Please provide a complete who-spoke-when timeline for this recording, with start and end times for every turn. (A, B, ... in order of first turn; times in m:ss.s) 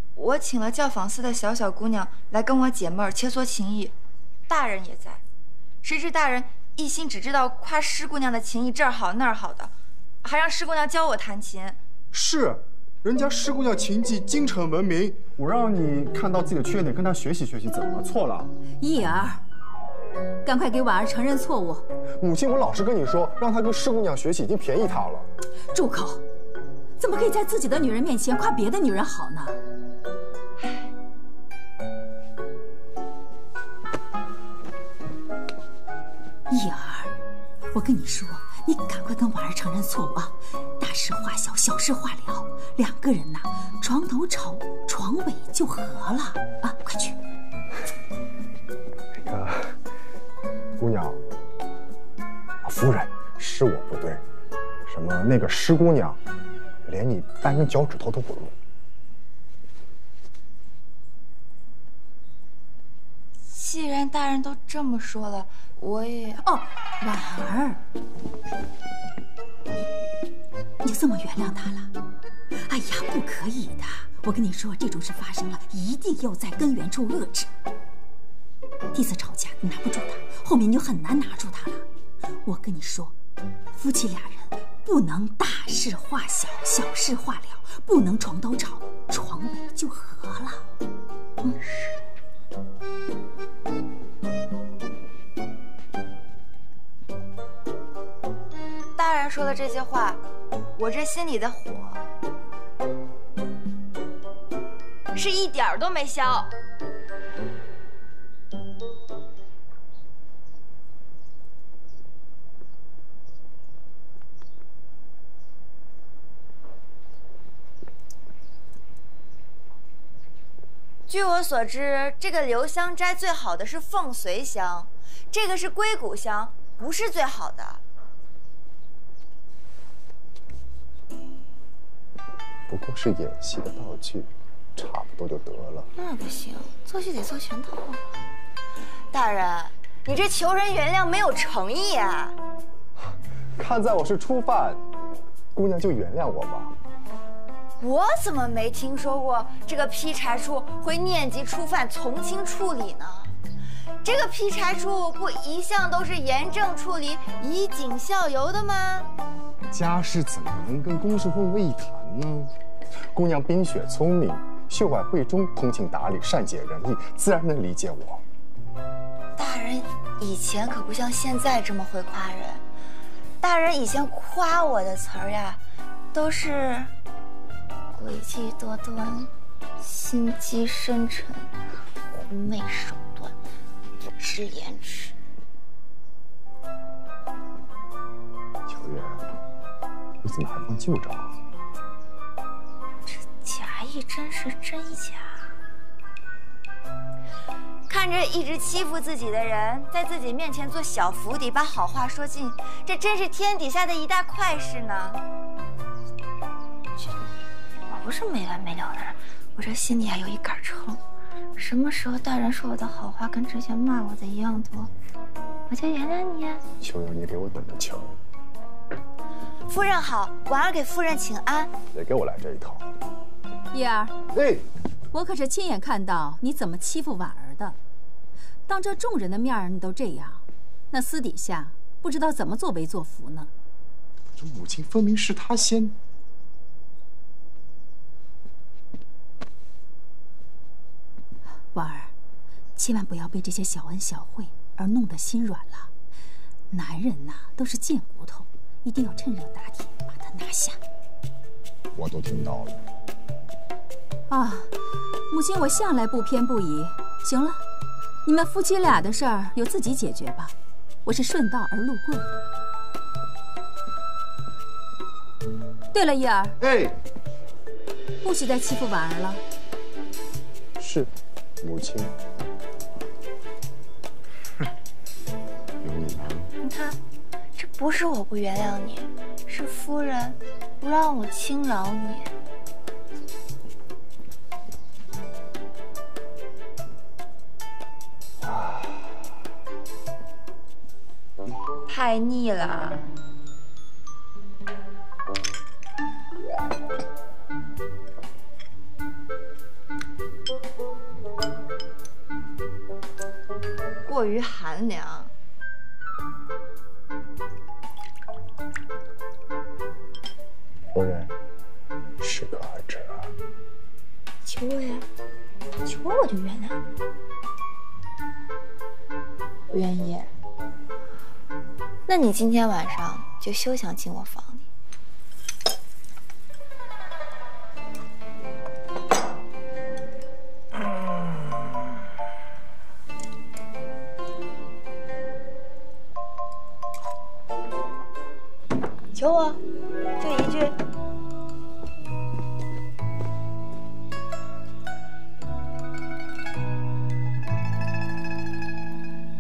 0:00.2-0:03.9 A
0:04.5-0:05.2 A
0:05.8-0:11.8 A
0:12.1-0:18.5 B
0:18.8-0:19.4 C
0:20.4-0:21.8 C
0:22.2-0:25.3 B
0:25.7-0:26.2 C
0:27.0-0:29.6 C
0:30.6-0:30.9 A
0:36.5-0:37.1 C
0:37.7-0:47.2 C
0:49.2-0:49.8 B
0:50.8-0:51.2 B
0:52.6-0:54.2 B
0:54.9-0:56.2 B
0:56.8-0:58.6 B
1:03.5-1:06.4 A
1:06.4-1:07.8 C
1:10.8-1:11.9 C
1:12.6-1:17.5 C
1:18.9-1:21.9 C
1:22.4-1:23.1 C
1:23.8-1:30.6 C
1:31.4-1:32.0 A
1:39.0-1:40.2 A
1:40.8-1:42.0 A
1:45.1-1:46.5 A
2:01.1-2:07.8 A
2:12.7-2:15.9 B
2:16.0-2:18.0 A
2:19.1-2:22.4 A
2:23.6-2:24.8 B
2:25.5-2:26.8 B
2:27.8-2:33.3 A
2:34.0-2:39.1 A
2:39.7-2:42.5 B
2:43.1-2:48.2 B
2:49.4-2:52.6 A
2:53.4-2:55.6 A
2:56.1-2:56.9 A
2:57.9-3:01.5 A
3:02.1-3:03.3 A
3:04.2-3:05.2 A
3:08.7-3:09.2 B
3:10.2-3:11.4 B
3:13.1-3:15.5 A
3:17.9-3:25.2 A
3:27.9-3:31.0 A
3:31.6-3:34.9 A
3:35.7-3:36.6 A
3:36.8-3:38.2 B
3:39.7-3:41.7 A
3:41.9-3:42.8 B
3:43.7-3:44.2 C
3:44.3-3:44.6 B
3:45.1-3:47.8 C
3:48.7-3:53.5 C
3:54.4-3:56.0 B
4:01.7-4:02.1 C
4:02.8-4:05.9 C
4:06.7-4:10.8 C
4:12.0-4:12.8 B
4:14.3-4:14.7 C
4:15.3-4:17.6 C
4:18.2-4:20.5 C
4:21.0-4:22.3 C
4:25.9-4:26.6 C
4:26.6-4:27.0 B
4:28.2-4:29.4 C
4:30.8-4:32.1 B
4:35.8-4:36.5 B
4:36.6-4:37.0 A
4:37.6-4:42.3 A
4:48.4-4:49.0 B
4:51.9-4:53.0 A
5:04.0-5:05.3 A
5:10.9-5:11.3 B
5:12.2-5:13.3 B
5:14.4-5:15.1 A
5:15.8-5:16.8 A
5:19.7-5:20.3 A
5:22.1-5:24.7 A
5:39.1-5:39.6 A
5:40.2-5:40.8 A